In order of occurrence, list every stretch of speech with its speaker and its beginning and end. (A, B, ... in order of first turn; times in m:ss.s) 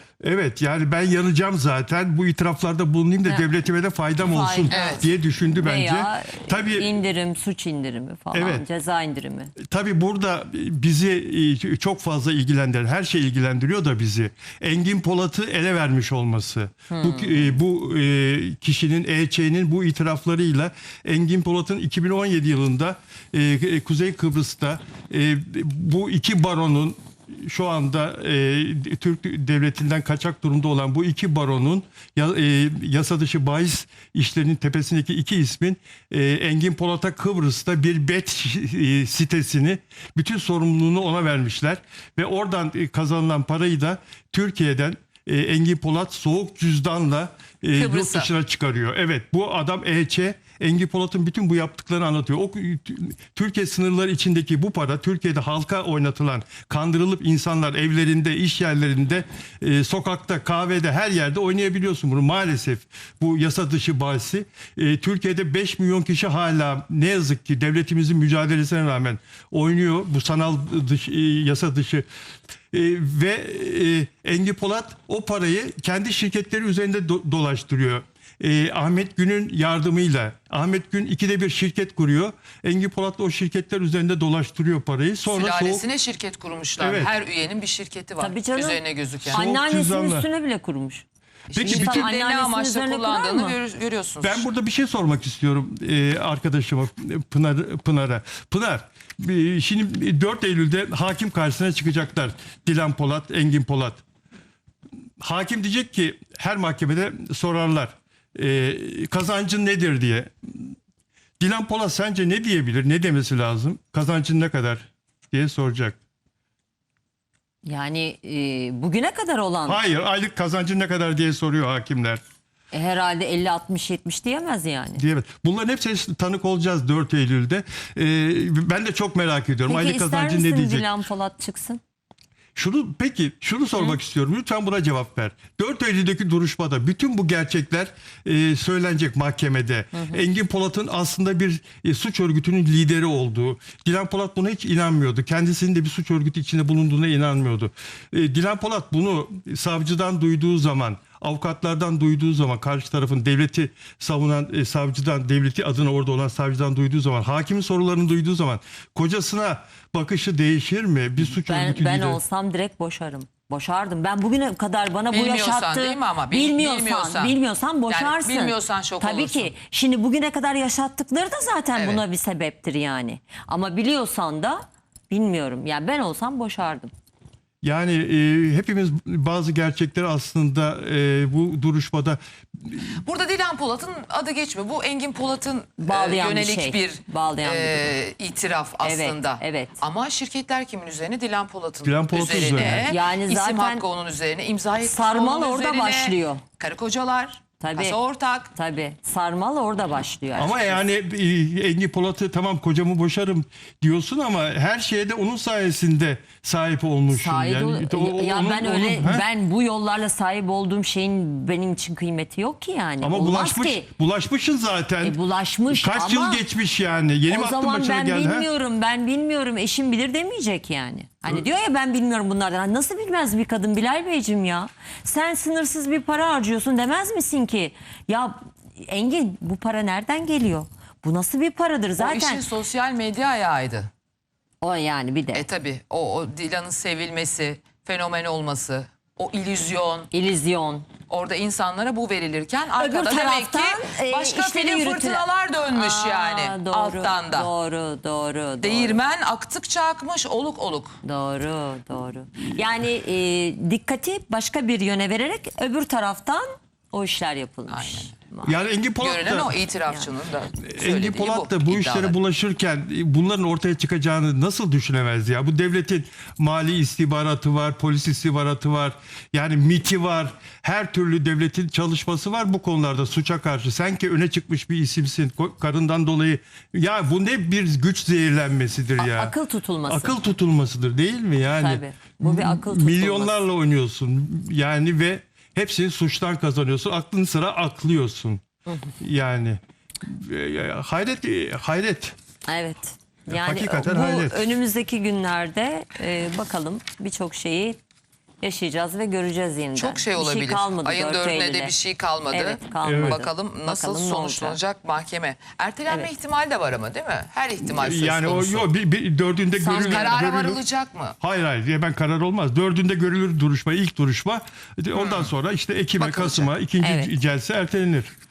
0:00.2-0:06.9 A
0:04.2-0:09.5 B
0:04.7-0:05.1 C
0:08.3-0:08.6 A
0:09.6-1:12.0 A
0:16.9-0:17.6 B
0:47.8-0:48.3 C
1:12.7-1:25.9 A
1:25.2-1:29.4 C
1:26.8-1:27.1 A
1:28.2-1:28.8 B
1:29.2-1:30.3 A
1:29.3-1:31.0 B
1:31.5-1:34.5 C
1:31.5-1:32.2 A
1:31.6-1:33.6 B
1:34.2-1:44.0 A
1:45.2-1:50.3 A
1:51.4-1:56.0 A
1:57.6-1:59.8 B
1:59.6-2:02.2 A
2:02.7-2:05.0 B
2:05.0-2:10.9 A
2:09.7-2:11.8 B
2:12.6-2:42.2 A
2:19.9-2:20.2 B
2:41.4-2:56.9 B
2:45.1-2:47.4 C
2:47.9-2:49.5 C
2:51.8-2:52.0 C
2:57.6-3:02.2 A
3:03.0-3:18.5 C
3:05.8-3:07.9 B
3:08.8-3:09.8 B
3:11.8-3:12.9 A
3:12.3-3:13.8 B
3:14.8-3:16.4 B
3:17.6-3:18.0 B
3:18.5-3:20.8 B
3:20.3-3:29.2 A
3:27.1-3:33.9 B
3:33.0-3:35.2 A
3:35.0-3:36.4 B
3:35.7-3:38.5 A
3:37.3-3:52.4 B
3:52.0-3:53.9 C
3:54.6-3:55.5 B
3:55.3-4:00.1 C
4:00.1-4:00.9 B
4:01.1-4:07.5 C
4:02.8-4:09.0 B
4:08.6-4:11.0 C
4:11.0-4:18.5 B
4:17.7-4:18.1 C
4:18.4-4:19.6 A
4:19.0-4:22.2 C
4:20.6-4:39.3 A
4:39.0-4:40.2 B
4:39.9-4:48.4 A
4:41.5-4:43.3 B
4:48.7-4:48.9 B
4:49.0-4:52.1 A
4:52.5-4:57.8 B
4:53.3-4:54.4 A
4:58.4-5:01.7 B
4:59.8-5:08.7 C
5:02.3-5:04.6 B
5:02.8-5:03.2 A
5:07.6-5:10.6 A
5:09.6-5:10.2 B
5:09.7-5:11.2 C
5:11.2-5:18.1 A
5:14.9-5:15.3 C
5:16.1-5:16.5 C
5:16.8-5:17.1 B